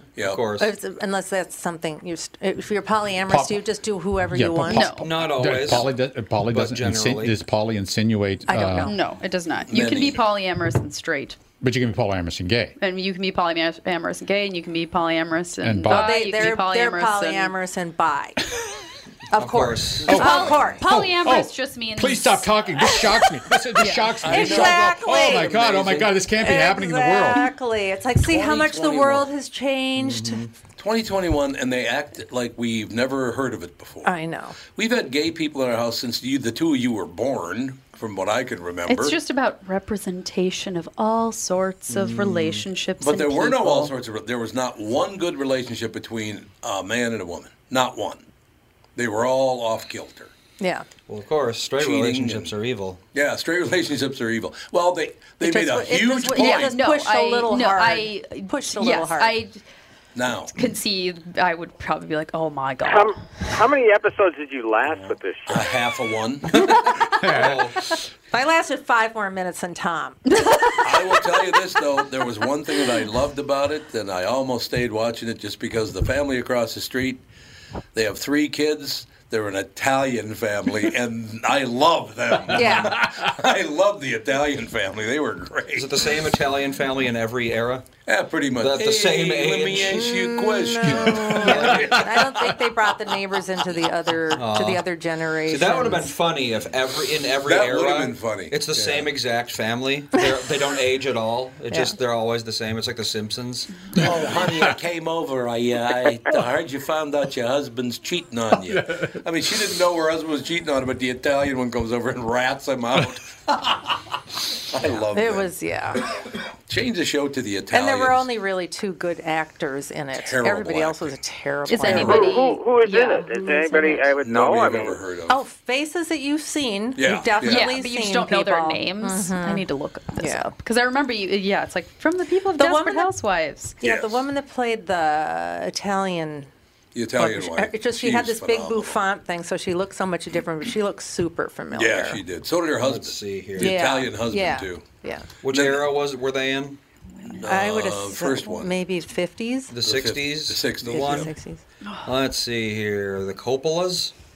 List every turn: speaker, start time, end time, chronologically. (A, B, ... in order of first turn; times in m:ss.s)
0:00.2-0:00.4 A
0:00.2-0:00.7 B
0:00.6-0:04.9 C
0:03.3-0:03.7 D
0:04.3-0:08.9 D
0:04.7-0:05.0 E
0:05.0-0:07.4 B
0:08.5-0:09.0 C
0:08.8-0:11.4 E
0:09.7-0:10.2 A
0:11.6-0:12.8 D
0:12.8-0:17.5 E
0:15.6-0:16.2 D
0:15.9-0:18.4 C
0:19.3-0:21.0 C
0:19.4-0:20.2 B
0:20.1-0:27.5 D
0:20.1-0:20.6 A
0:20.1-0:22.5 E
0:23.8-0:24.1 E
0:24.2-0:26.1 A
0:24.2-0:25.6 C
0:26.4-0:30.4 C
0:28.2-0:29.3 A
0:30.0-0:30.5 B
0:30.8-0:34.1 A
0:34.0-0:34.6 C
0:34.7-0:39.2 A
0:38.9-0:43.9 E
0:41.9-0:42.7 B
0:43.0-0:48.2 A
0:49.0-0:50.3 A
0:50.6-0:50.9 C
0:51.1-0:53.0 B
0:51.8-0:52.5 A
0:53.1-0:56.8 A
0:55.4-0:59.4 C
0:56.4-0:59.6 E
1:00.1-1:00.5 A
1:00.5-1:03.4 E
1:02.8-1:05.6 F
1:04.9-1:06.5 A
1:06.5-1:06.8 B
1:07.2-1:07.7 D
1:07.3-1:07.8 B
1:08.3-1:11.2 C
1:10.8-1:17.2 A
1:17.9-1:26.1 A
1:22.5-1:23.0 C
1:25.8-1:27.9 B
1:28.1-1:32.0 A
1:28.6-1:30.0 B
1:29.9-1:36.2 C
1:31.3-1:32.0 B
1:34.3-1:34.8 B
1:35.5-1:44.4 B
1:37.4-1:39.1 A
1:44.0-1:54.0 A
1:48.7-1:49.1 D
1:54.7-1:55.5 A
1:55.1-1:56.0 C
1:56.0-1:58.3 A
1:57.7-2:02.4 C
2:00.2-2:01.1 A
2:01.7-2:04.1 E
2:01.9-2:05.0 F
2:04.2-2:05.4 A
2:05.3-2:09.7 C
2:07.0-2:07.8 A
2:07.4-2:13.8 E
2:10.2-2:10.5 C
2:12.6-2:13.1 C
2:13.8-2:16.5 C
2:13.8-2:14.2 A
2:17.0-2:19.0 A
2:17.2-2:22.2 C
2:21.7-2:24.8 A
2:22.8-2:23.8 B
2:23.6-2:25.3 C
2:25.4-2:26.8 B
2:25.5-2:25.9 A
2:27.4-2:28.7 A
2:27.4-2:29.7 C
2:29.7-2:31.3 B
2:29.8-2:31.3 A
2:30.9-2:31.6 C
2:31.8-2:32.1 E
2:32.0-2:34.1 B